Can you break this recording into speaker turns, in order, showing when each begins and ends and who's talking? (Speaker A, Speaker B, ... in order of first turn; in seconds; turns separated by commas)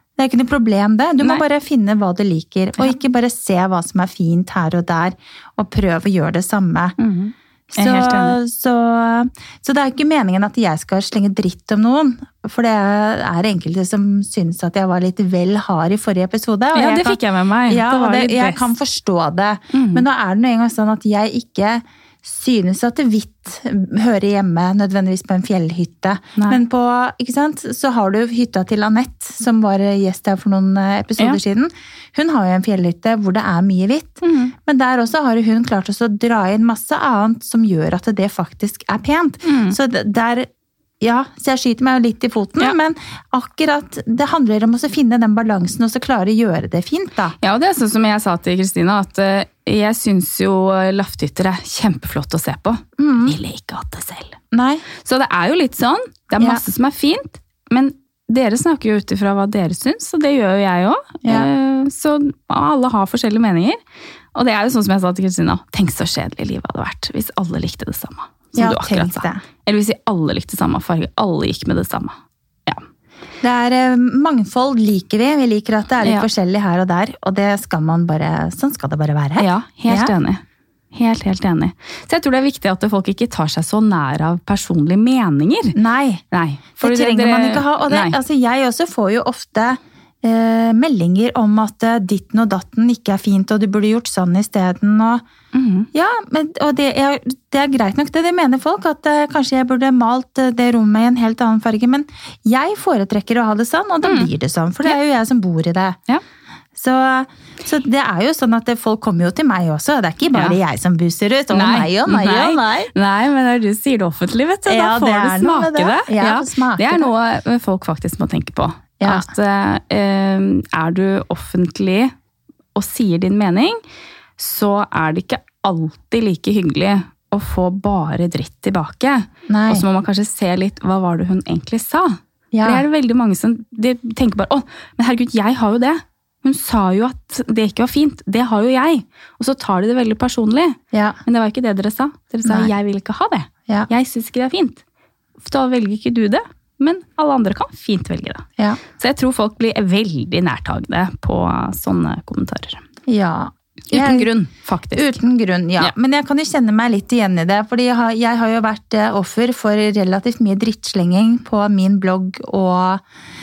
Speaker A: 0.2-7.0, Speaker B: 7.0-8.4, Speaker A: 7.7-40.5, Speaker B: 16.7-18.7, Speaker B: 19.7-20.0, Speaker B: 26.4-26.6, Speaker B: 34.2-34.5, Speaker B: 39.4-39.8, Speaker A: 41.0-47.3, Speaker B: 47.4-54.4, Speaker A: 53.0-53.4, Speaker A: 54.5-54.8, Speaker B: 55.0-63.8, Speaker B: 64.3-72.8, Speaker A: 68.5-69.4, Speaker A: 73.4-80.1, Speaker B: 76.0-76.3, Speaker B: 79.4-80.4, Speaker B: 80.9-85.8, Speaker A: 85.7-86.2, Speaker B: 86.3-88.2, Speaker A: 86.8-95.2, Speaker B: 95.5-95.9, Speaker A: 95.9-106.0, Speaker B: 104.0-104.3, Speaker A: 106.7-112.9, Speaker B: 110.3-110.6, Speaker B: 111.5-122.1, Speaker A: 114.7-117.1, Speaker A: 119.0-119.3, Speaker B: 122.7-123.8, Speaker B: 124.4-144.8, Speaker A: 129.5-129.8, Speaker A: 132.5-132.8, Speaker A: 140.9-141.2, Speaker A: 142.4-142.7, Speaker B: 145.4-152.8, Speaker A: 153.1-154.3, Speaker B: 153.9-155.1, Speaker A: 154.9-163.0